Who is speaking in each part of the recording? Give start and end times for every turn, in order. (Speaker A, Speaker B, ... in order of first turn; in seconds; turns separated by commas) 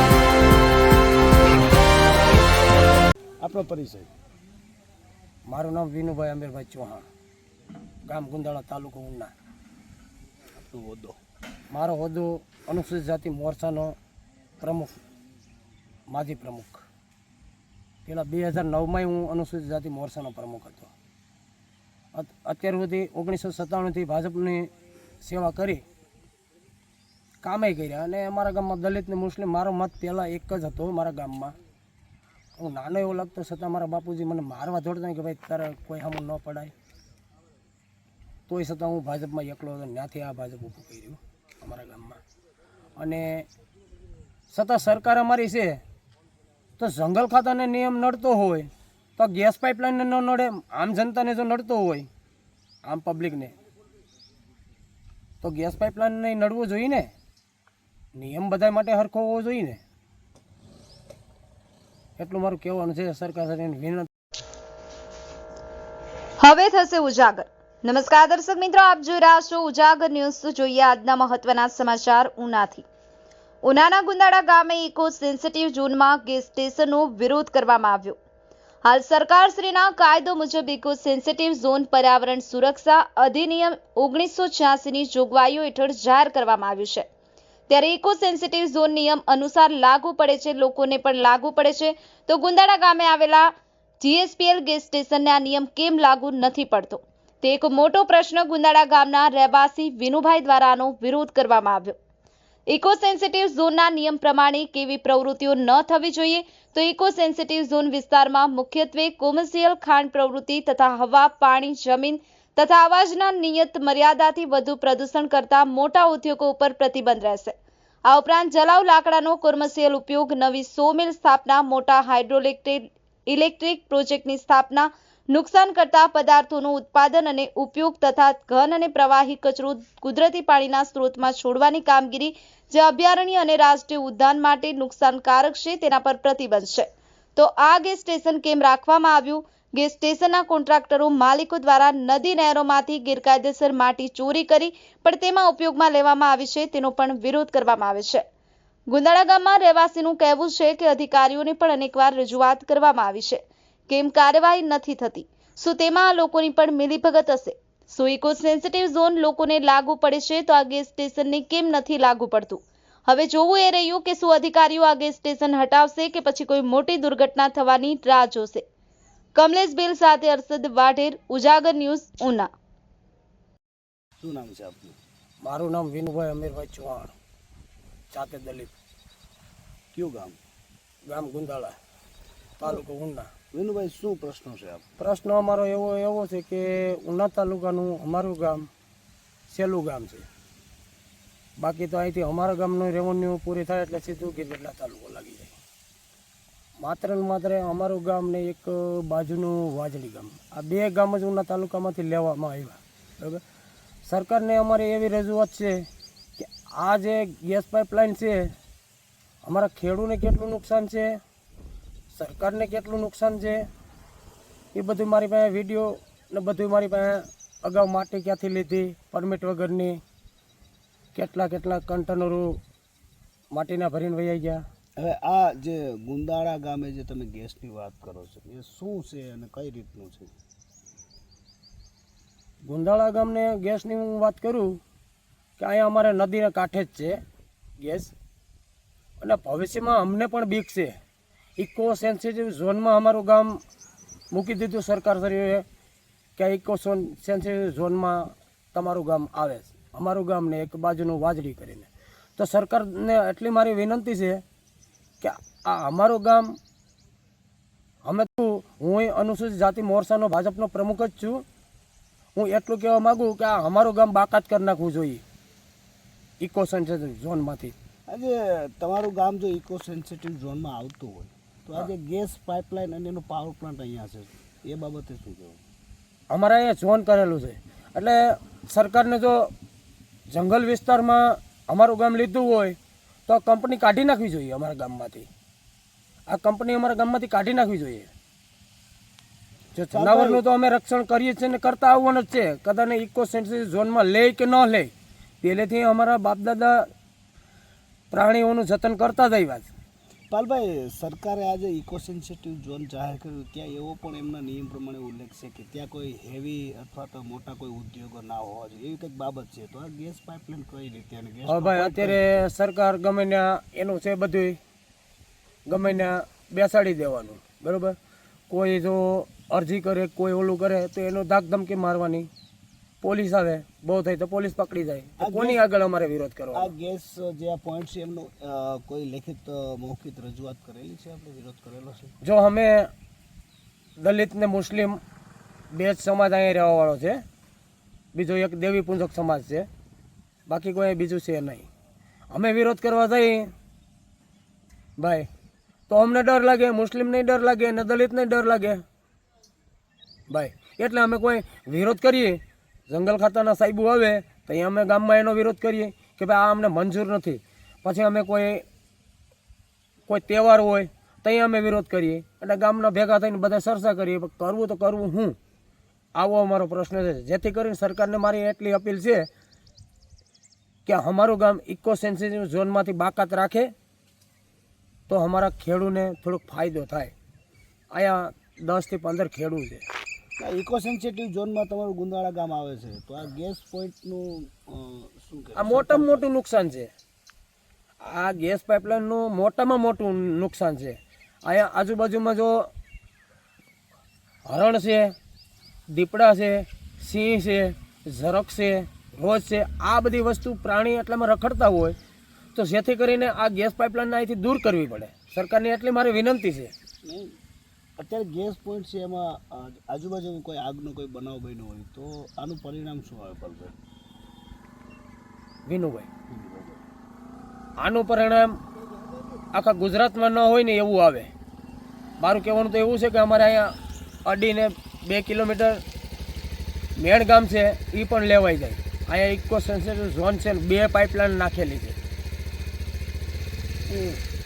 Speaker A: 3.4-4.1, Speaker B: 5.5-7.0, Speaker B: 8.1-9.3, Speaker A: 10.6-11.2, Speaker B: 11.7-14.0, Speaker B: 14.6-14.9, Speaker B: 16.1-16.9, Speaker B: 18.1-20.9, Speaker B: 22.1-24.7, Speaker B: 25.2-25.8, Speaker B: 27.4-31.6, Speaker B: 32.6-36.7, Speaker B: 38.5-42.2, Speaker B: 43.0-43.5, Speaker B: 44.5-45.8, Speaker B: 46.8-52.1, Speaker B: 52.9-53.5, Speaker B: 55.4-57.1, Speaker B: 58.1-59.8, Speaker B: 62.2-64.1, Speaker C: 66.4-72.9, Speaker C: 73.6-78.2, Speaker C: 78.8-87.1, Speaker C: 87.7-102.0, Speaker C: 102.7-117.5, Speaker C: 118.1-148.2, Speaker C: 148.9-168.7, Speaker C: 169.3-172.5, Speaker A: 174.2-175.0, Speaker B: 175.4-177.1, Speaker B: 178.1-178.7, Speaker A: 179.9-180.4, Speaker B: 181.1-181.8, Speaker B: 182.6-183.3, Speaker A: 183.5-184.8, Speaker B: 185.0-188.7, Speaker B: 189.5-190.3, Speaker B: 191.6-195.5, Speaker B: 196.8-203.4, Speaker B: 204.1-208.5, Speaker B: 209.4-211.2, Speaker B: 212.1-213.6, Speaker B: 214.7-220.0, Speaker B: 221.2-222.6, Speaker B: 223.5-224.6, Speaker A: 225.0-230.3, Speaker B: 232.7-234.8, Speaker B: 235.6-237.2, Speaker B: 237.8-238.1, Speaker B: 239.2-241.0, Speaker B: 241.6-243.6, Speaker B: 244.3-245.7, Speaker B: 246.4-254.4, Speaker B: 255.2-256.6, Speaker B: 258.1-261.4, Speaker B: 262.4-265.2, Speaker B: 266.4-267.8, Speaker A: 268.1-275.6, Speaker B: 276.3-279.5, Speaker B: 280.3-285.3, Speaker B: 286.3-288.1, Speaker B: 289.7-294.9, Speaker A: 289.9-290.4, Speaker B: 295.4-296.9, Speaker B: 298.1-299.7, Speaker A: 300.3-312.5, Speaker B: 311.5-314.6, Speaker B: 315.7-318.0, Speaker B: 318.5-322.3, Speaker B: 323.0-326.7, Speaker A: 325.2-325.6, Speaker A: 326.5-332.2, Speaker B: 332.2-332.9, Speaker B: 334.0-335.0, Speaker B: 335.7-337.2, Speaker B: 338.1-339.7, Speaker B: 340.5-341.7, Speaker B: 342.3-343.5, Speaker B: 345.0-345.3, Speaker B: 345.9-348.8, Speaker B: 350.3-358.6, Speaker B: 360.1-365.4, Speaker B: 366.2-369.3, Speaker B: 370.9-373.7, Speaker B: 375.1-377.1, Speaker B: 377.9-379.8, Speaker A: 380.4-386.3, Speaker B: 385.6-386.9, Speaker B: 388.0-392.7, Speaker B: 394.5-395.1, Speaker B: 395.9-402.0, Speaker B: 402.6-406.7, Speaker A: 407.1-407.3, Speaker A: 408.0-413.8, Speaker B: 415.7-416.1, Speaker A: 416.3-416.8, Speaker B: 417.8-418.6, Speaker B: 419.5-421.3, Speaker B: 422.2-423.7, Speaker B: 424.3-425.8, Speaker B: 427.0-432.0, Speaker A: 433.9-434.2